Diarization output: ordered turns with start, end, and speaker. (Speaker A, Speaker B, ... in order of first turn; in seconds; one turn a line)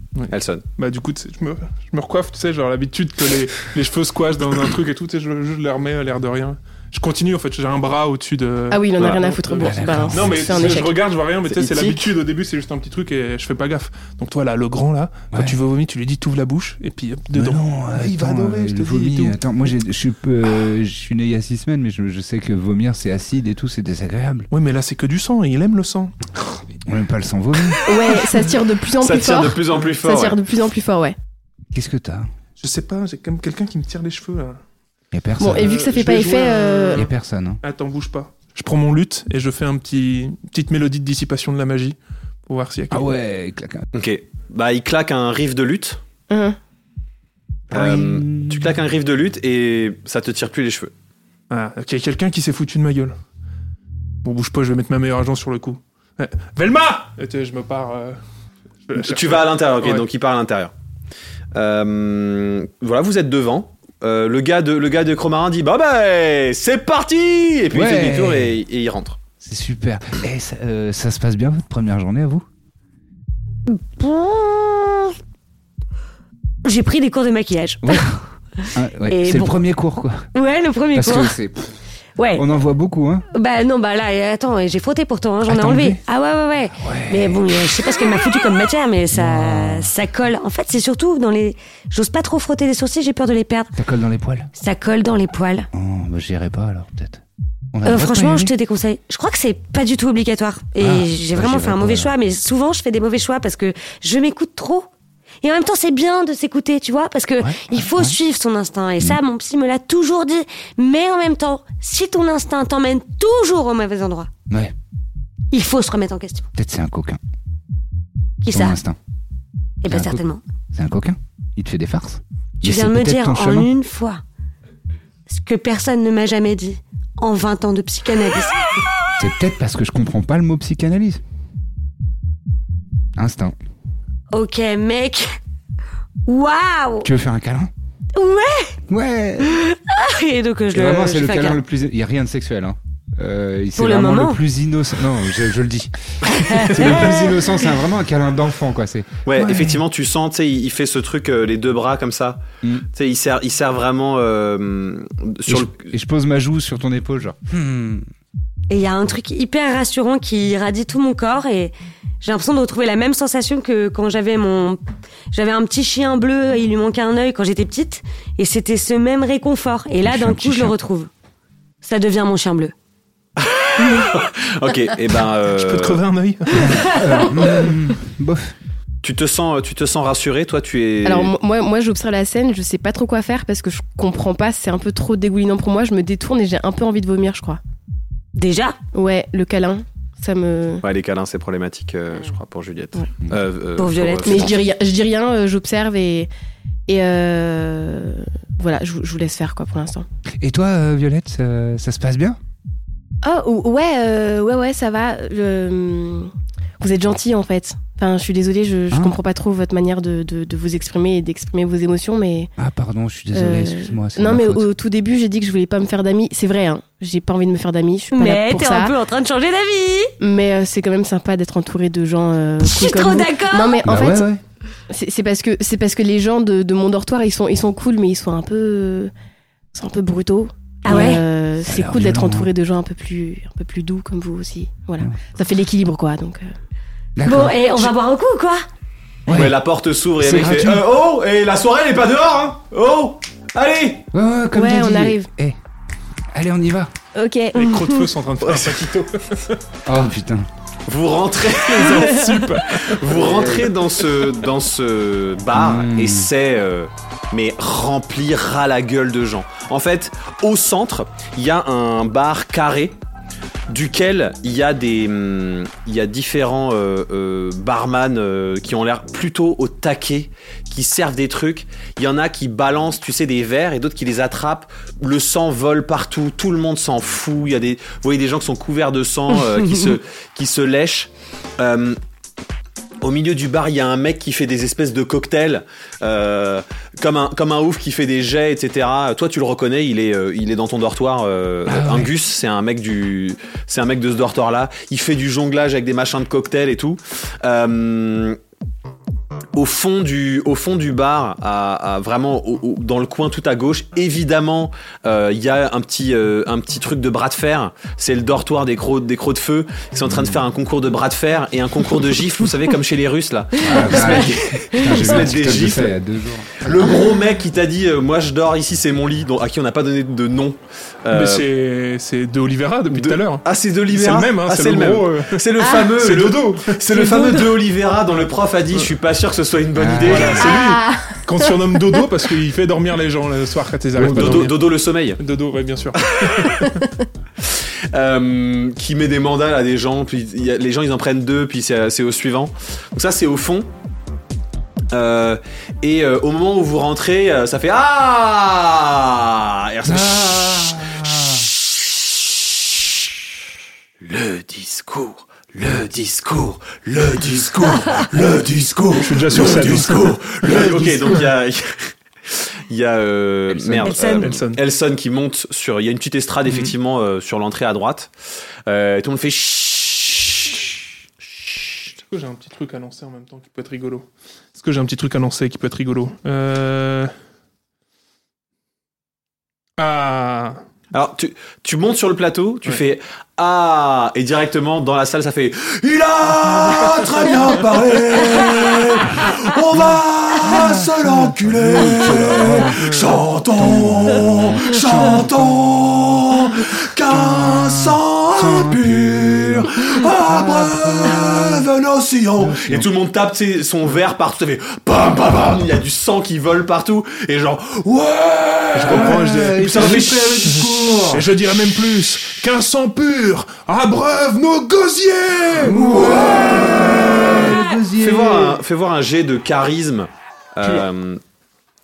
Speaker A: 0.2-19.4
Speaker B: 0.3-0.7
Speaker C: 8.7-10.9
Speaker D: 9.6-10.8
Speaker B: 11.5-12.1
Speaker D: 15.3-15.6
Speaker D: 17.3-24.5
Speaker A: 24.5-26.6
Speaker D: 26.7-27.8
Speaker C: 27.9-31.2
Speaker B: 29.0-30.4
Speaker D: 31.7-32.3
Speaker A: 32.6-34.6
Speaker D: 35.1-35.9
Speaker C: 35.4-37.1
Speaker A: 35.5-37.1
Speaker D: 37.0-37.6
Speaker A: 37.6-43.1
Speaker D: 42.9-43.9
Speaker B: 43.9-46.0
Speaker C: 46.3-46.6
Speaker B: 47.7-50.9
Speaker D: 47.7-48.7
Speaker A: 51.5-53.2
Speaker A: 54.2-58.2
Speaker A: 58.9-60.0
Speaker B: 59.0-60.7
Speaker B: 61.5-69.2
Speaker D: 67.7-68.6
Speaker D: 69.4-72.5
Speaker E: 73.7-75.2
Speaker E: 76.6-79.6
Speaker D: 77.8-78.2
Speaker D: 78.7-80.3
Speaker E: 80.3-81.4
Speaker D: 80.9-81.7
Speaker E: 82.2-82.4
Speaker D: 82.3-83.2
Speaker E: 83.3-93.7
Speaker D: 85.5-86.0
Speaker D: 86.8-87.7
Speaker D: 89.1-89.9
Speaker D: 93.8-94.5
Speaker E: 94.6-95.7
Speaker D: 95.7-98.5
Speaker E: 97.8-104.9
Speaker D: 100.8-102.1
Speaker E: 105.4-114.3
Speaker D: 107.4-108.2
Speaker D: 114.5-114.8
Speaker E: 115.5-116.5
Speaker D: 116.5-117.2
Speaker E: 118.4-118.8
Speaker D: 118.5-119.0
Speaker E: 119.8-120.4
Speaker D: 119.9-123.7
Speaker E: 122.6-124.2
Speaker E: 125.3-128.6
Speaker D: 129.2-131.2
Speaker D: 133.2-133.6
Speaker E: 134.3-135.4
Speaker E: 136.3-137.1
Speaker D: 137.0-137.7
Speaker E: 138.2-138.8
Speaker D: 138.9-139.6
Speaker E: 139.4-141.6
Speaker D: 140.7-149.8
Speaker E: 143.8-144.4
Speaker E: 146.4-147.4
Speaker B: 149.2-155.9
Speaker D: 155.5-158.1
Speaker E: 158.7-164.8
Speaker E: 165.3-171.1
Speaker D: 170.0-170.8
Speaker E: 171.8-172.7
Speaker B: 173.4-176.0
Speaker A: 175.5-176.9
Speaker D: 176.5-178.5
Speaker B: 179.0-181.3
Speaker C: 181.1-187.6
Speaker E: 188.3-188.8
Speaker C: 188.9-190.8
Speaker B: 190.8-194.6
Speaker E: 193.8-194.6
Speaker C: 194.2-196.3
Speaker C: 196.9-200.1
Speaker D: 200.4-202.4
Speaker C: 203.2-212.5
Speaker D: 208.9-209.2
Speaker D: 212.6-214.7
Speaker C: 213.3-218.9
Speaker E: 218.1-220.1
Speaker C: 220.2-224.3
Speaker E: 222.6-224.0
Speaker D: 223.8-224.4
Speaker C: 224.9-229.1
Speaker C: 229.7-236.5
Speaker E: 230.8-231.2
Speaker D: 231.6-232.5
Speaker D: 237.2-237.9
Speaker E: 237.2-238.6
Speaker D: 239.3-239.6
Speaker B: 239.3-244.0
Speaker D: 240.2-240.9
Speaker D: 244.1-245.6
Speaker C: 244.6-245.3
Speaker D: 246.3-246.9
Speaker C: 247.2-248.0
Speaker A: 247.5-249.6
Speaker B: 248.4-248.9
Speaker D: 249.9-250.5
Speaker B: 250.9-262.9
Speaker A: 251.6-253.1
Speaker D: 253.1-253.7
Speaker D: 255.5-256.3
Speaker B: 263.7-282.0
Speaker B: 283.0-298.4
Speaker D: 291.7-292.1
Speaker B: 299.6-316.0
Speaker D: 310.1-310.4
Speaker D: 313.6-317.0
Speaker B: 316.6-321.5
Speaker A: 321.1-327.4
Speaker B: 322.9-330.5
Speaker C: 325.6-325.9
Speaker D: 329.8-330.5
Speaker A: 330.0-334.6
Speaker C: 330.4-331.2
Speaker D: 333.9-334.5
Speaker B: 334.0-335.2
Speaker A: 335.2-336.9
Speaker B: 336.1-336.6
Speaker B: 337.4-343.7
Speaker B: 344.9-350.9
Speaker D: 349.9-351.5
Speaker B: 351.7-353.0
Speaker B: 354.0-368.1
Speaker A: 359.0-361.2
Speaker A: 363.7-364.6
Speaker E: 363.8-364.3
Speaker A: 366.5-366.7
Speaker B: 368.7-370.8
Speaker B: 371.4-371.9
Speaker A: 372.1-377.1
Speaker A: 379.8-380.6
Speaker B: 380.9-410.4
Speaker D: 389.8-392.9
Speaker A: 392.8-393.1
Speaker D: 393.5-395.6
Speaker D: 397.1-401.7
Speaker D: 402.4-402.9
Speaker A: 408.8-416.1
Speaker D: 408.9-411.3
Speaker D: 415.6-418.6
Speaker B: 415.9-421.2